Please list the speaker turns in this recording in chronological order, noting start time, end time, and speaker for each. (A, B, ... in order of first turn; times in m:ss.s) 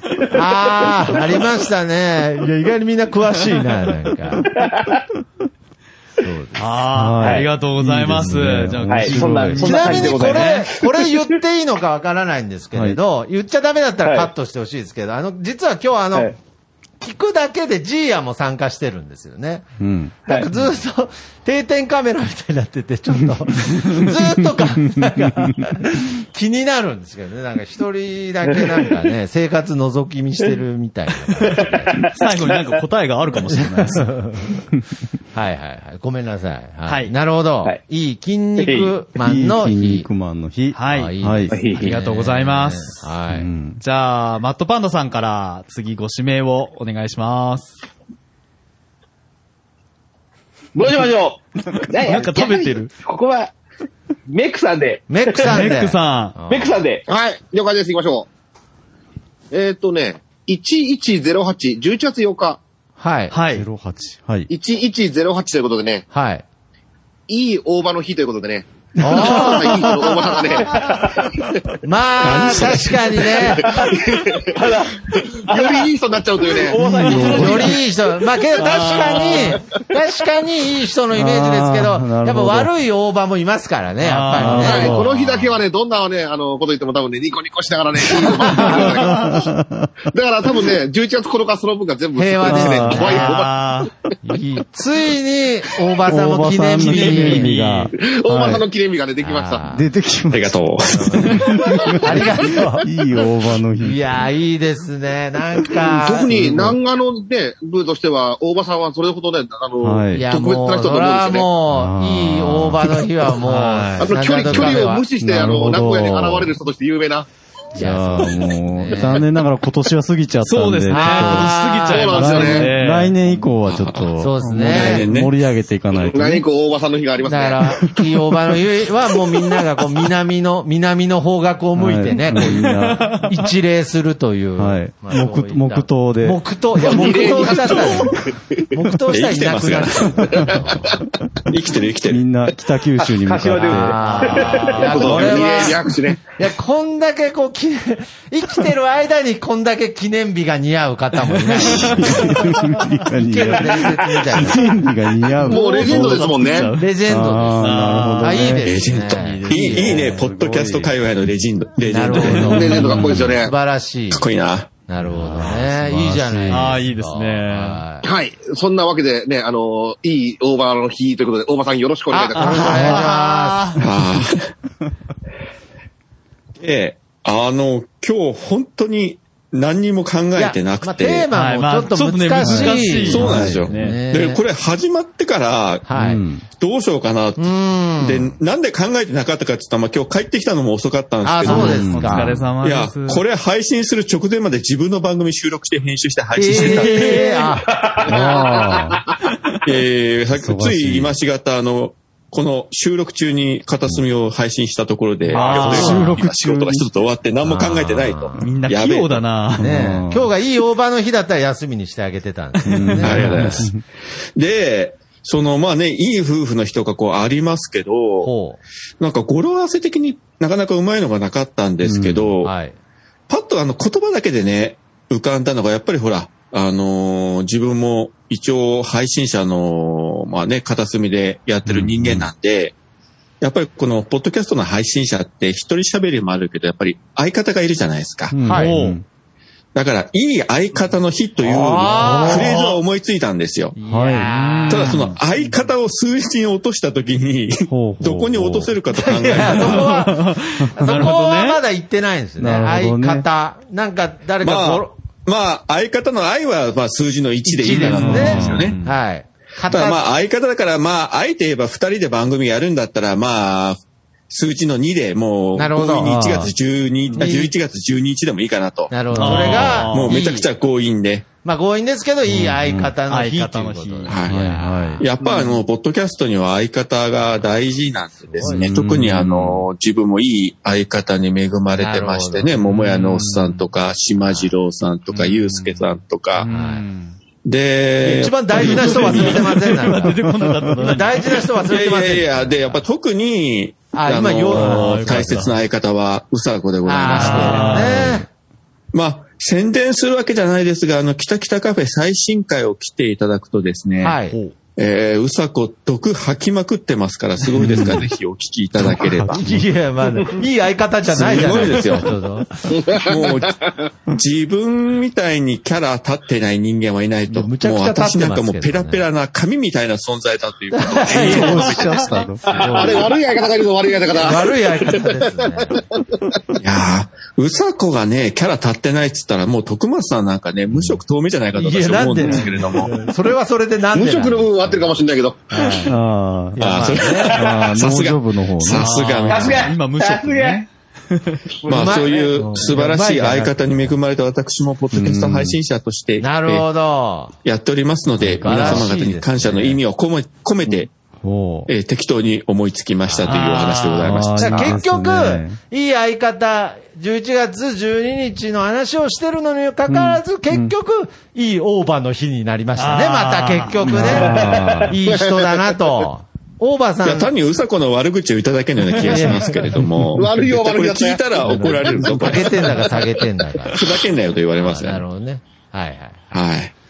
0:00.3-0:04.5 A
0:04.5-0:05.0 B
0:06.2-0:06.8 A
0:06.6-0:10.7 C
0:06.9-0:10.2 D
0:07.2-0:07.5 B
0:08.9-0:10.7 B
0:09.6-0:16.3 A
0:12.7-0:13.0 D
0:14.0-0:14.3 B
0:17.0-0:19.7 A
0:19.8-0:20.6 D
0:20.3-0:32.1 A
0:31.6-0:32.2 B
0:32.1-0:34.1 C
0:33.5-0:34.6 A
0:35.3-0:40.1 A
0:36.9-0:37.1 C
0:38.6-0:39.0 B
0:39.2-0:41.5 D
0:40.7-0:41.1 C
0:40.9-0:43.5 A
0:41.5-0:42.0 B
0:41.7-0:43.1 C
0:43.3-0:43.8 D
0:43.8-0:47.8 C
0:50.8-0:53.5 B
0:52.0-0:52.9 C
0:54.3-0:55.5 B
0:55.1-0:56.7 A
0:55.4-0:56.4 C
0:56.5-0:57.0 B
0:57.1-0:58.3 E
0:59.5-1:02.6 E
1:03.0-1:03.3 A
1:03.3-1:03.7 C
1:03.5-1:04.5 D
1:04.5-1:06.1 E
1:06.1-1:06.4 A
1:07.3-1:10.8 E
1:09.0-1:10.2 A
1:09.0-1:10.1 D
1:10.8-1:11.2 B
1:11.8-1:13.8 A
1:12.2-1:13.6 F
1:13.7-1:14.6 E
1:13.8-1:15.9 B
1:15.3-1:16.8 E
1:16.4-1:17.8 B
1:16.7-1:17.8 D
1:17.3-1:25.1 A
1:18.6-1:19.5 C
1:18.9-1:19.4 B
1:21.1-1:22.7 D
1:24.0-1:25.6 C
1:24.4-1:25.0 D
1:24.5-1:29.4 E
1:28.4-1:29.2 A
1:28.6-1:29.9 D
1:30.1-1:33.5 E
1:32.2-1:33.4 A
1:32.5-1:33.9 C
1:34.2-1:37.5 A
1:36.1-1:38.6 D
1:36.8-1:37.9 C
1:38.0-1:39.7 E
1:39.2-1:39.8 A
1:39.7-1:44.2 D
1:40.3-1:41.5 F
1:40.9-1:42.9 A
1:43.8-1:46.8 A
1:45.8-1:51.5 E
1:46.1-1:46.6 D
1:49.8-1:50.2 D
1:50.1-1:55.1 A
1:51.7-1:53.0 D
1:53.4-1:54.1 C
1:54.0-1:57.3 E
1:55.2-1:56.6 D
1:57.7-1:59.3 A
1:57.7-2:01.6 D
2:00.4-2:03.2 C
2:00.9-2:02.3 A
2:01.9-2:02.7 E
2:02.1-2:06.4 D
2:03.7-2:05.3 F
2:04.2-2:05.1 A
2:06.0-2:07.9 E
2:07.2-2:12.7 A
2:11.8-2:13.2 D
2:12.5-2:13.3 C
2:13.3-2:21.0 A
2:14.6-2:16.4 D
2:16.8-2:18.7 E
2:17.7-2:18.0 D
2:19.1-2:20.3 F
2:20.3-2:20.8 E
2:21.5-2:22.2 F
2:22.1-2:24.0 D
2:23.1-2:24.7 B
2:23.6-2:34.9 A
2:24.0-2:25.5 C
2:24.8-2:26.2 E
2:31.6-2:36.4 D
2:31.7-2:32.0 C
2:35.4-2:36.7 E
2:35.5-2:36.9 C
2:36.8-2:40.2 A
2:37.0-2:38.8 D
2:37.6-2:38.6 C
2:38.6-2:42.8 F
2:39.2-2:39.8 C
2:39.4-2:41.0 D
2:41.8-2:44.3 A
2:42.3-2:43.5 E
2:42.7-2:43.4 D
2:44.1-2:44.7 F
2:44.9-2:48.1 A
2:45.0-2:46.8 D
2:46.5-2:47.8 C
2:48.0-2:53.0 E
2:52.1-2:53.8 A
2:52.3-2:53.8 C
2:53.8-2:54.5 F
2:56.6-3:01.3 F
3:00.4-3:04.4 A
3:01.3-3:04.0 C
3:02.4-3:03.7 D
3:03.0-3:12.0 F
3:05.9-3:06.2 A
3:06.0-3:06.4 D
3:07.4-3:08.3 A
3:11.2-3:12.4 A
3:11.4-3:12.5 D
3:11.6-3:13.2 C
3:12.6-3:17.4 F
3:16.4-3:17.7 A
3:16.9-3:18.6 B
3:18.1-3:19.0 D
3:18.2-3:18.8 E
3:19.6-3:29.2 F
3:20.4-3:21.2 D
3:25.3-3:26.2 C
3:25.3-3:26.9 D
3:27.4-3:28.5 A
3:28.4-3:29.7 C
3:29.6-3:33.6 A
3:29.6-3:30.3 D
3:32.7-3:33.8 D
3:33.0-3:33.7 F
3:34.4-3:38.3 F
3:38.2-3:38.6 A
3:39.0-3:42.5 F
3:41.8-3:42.3 D
3:42.4-3:42.8 A
3:43.3-3:52.7 F
3:51.7-3:52.3 D
3:53.4-3:58.4 F
3:58.3-3:59.0 D
3:58.4-3:58.7 A
3:58.5-3:59.0 C
3:59.7-4:03.8 F
4:01.4-4:02.6 A
4:01.9-4:02.5 D
4:03.8-4:05.0 A
4:03.9-4:04.3 D
4:04.2-4:05.2 C
4:04.7-4:10.0 F
4:07.7-4:08.8 D
4:08.9-4:14.9 A
4:09.8-4:11.6 C
4:12.4-4:13.3 D
4:14.4-4:18.8 F
4:17.5-4:20.0 A
4:17.7-4:18.9 C
4:18.0-4:18.7 D
4:19.7-4:31.3 F
4:25.6-4:26.2 A
4:26.0-4:26.5 D
4:27.2-4:27.5 A
4:28.9-4:30.5 A
4:29.2-4:30.2 C
4:31.4-4:35.5 A
4:32.3-4:32.9 D
4:33.1-4:34.2 C
4:34.1-4:34.4 F
4:34.3-4:35.0 D
4:35.0-4:46.5 F
4:38.3-4:38.6 A
4:38.4-4:39.6 D
4:41.8-4:42.5 A
4:42.7-4:43.6 C
4:45.1-4:47.2 C
4:46.5-4:46.8 A
4:47.4-4:49.7 F
4:48.0-4:50.2 A
4:48.6-4:51.5 C
4:50.0-4:50.9 D
4:50.8-4:52.8 A
4:51.7-4:58.2 F
4:53.9-4:55.4 A
4:54.5-4:55.6 C
4:56.8-4:58.3 A
4:57.1-4:58.1 C
4:58.9-5:04.2 F
5:04.0-5:04.4 A
5:04.8-5:09.5 F
5:07.6-5:08.1 D
5:08.9-5:09.6 D
5:09.3-5:13.0 A
5:11.1-5:12.2 F
5:12.7-5:13.8 E
5:13.0-5:22.2 F
5:17.3-5:19.1 A
5:20.7-5:23.2 A
5:21.1-5:22.8 D
5:22.6-5:25.2 E
5:24.1-5:25.8 A
5:26.6-5:32.9 F
5:30.7-5:31.0 D
5:31.6-5:35.0 A
5:33.9-5:35.5 E
5:35.5-5:35.9 A
5:35.9-5:39.0 D
5:36.6-5:37.5 A
5:36.6-5:39.7 F
5:38.7-5:41.4 C
5:39.3-5:40.6 B
5:41.6-5:42.3 B
5:41.6-5:46.7 F
5:41.7-5:43.9 A
5:44.9-5:45.6 D
5:46.2-5:47.3 A
5:47.4-5:50.9 F
5:48.2-5:49.8 A
5:48.4-5:48.9 D
5:51.2-5:51.7 D
5:51.7-5:54.7 F
5:53.3-5:54.2 C
5:54.0-5:55.6 D
5:54.4-6:07.3 A
5:59.9-6:00.7 D
6:02.8-6:04.2 C
6:03.8-6:05.0 D
6:04.2-6:04.9 B
6:05.1-6:05.7 E
6:07.0-6:12.9 F
6:08.9-6:09.9 A
6:10.2-6:12.3 E
6:11.5-6:13.8 A
6:13.7-6:15.0 F
6:14.6-6:16.2 A
6:16.3-6:16.7 F